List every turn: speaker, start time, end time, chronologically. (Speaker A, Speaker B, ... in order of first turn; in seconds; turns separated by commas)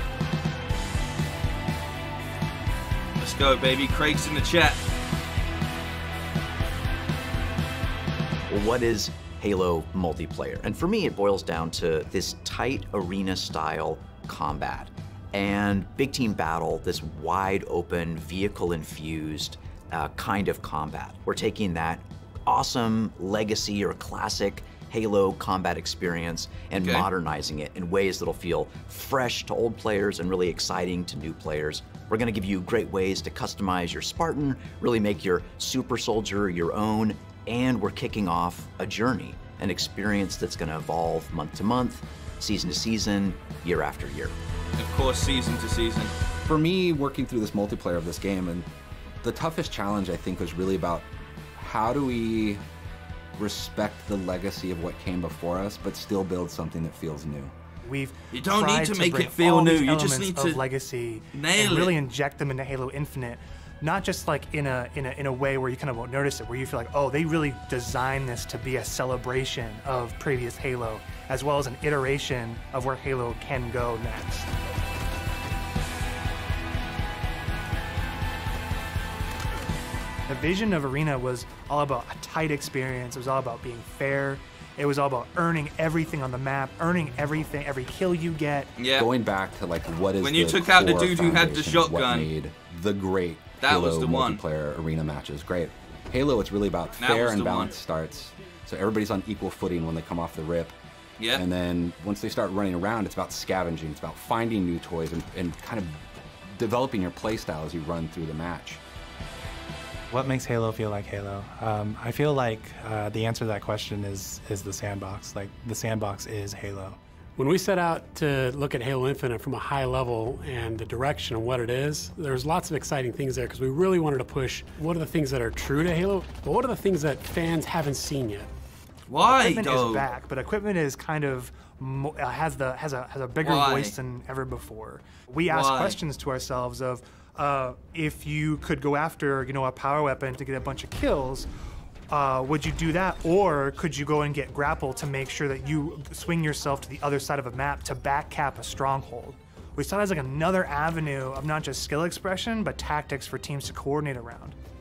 Speaker A: 3.2-4.8, Speaker B: 8.5-44.4, Speaker A: 26.8-27.1, Speaker A: 44.8-46.1, Speaker C: 46.4-48.7, Speaker C: 49.2-52.6, Speaker C: 53.4-57.5, Speaker D: 57.8-74.5, Speaker A: 58.3-60.6, Speaker A: 61.3-62.0, Speaker D: 80.3-88.7, Speaker A: 88.8-89.1, Speaker C: 89.0-100.7, Speaker A: 90.2-92.3, Speaker A: 93.6-94.4, Speaker A: 97.0-97.7, Speaker A: 101.2-101.4, Speaker C: 101.3-108.8, Speaker E: 110.1-117.0, Speaker F: 117.4-128.5, Speaker A: 129.1-130.1, Speaker D: 129.3-141.5, Speaker A: 133.4-134.0, Speaker A: 135.5-136.0, Speaker D: 142.1-154.6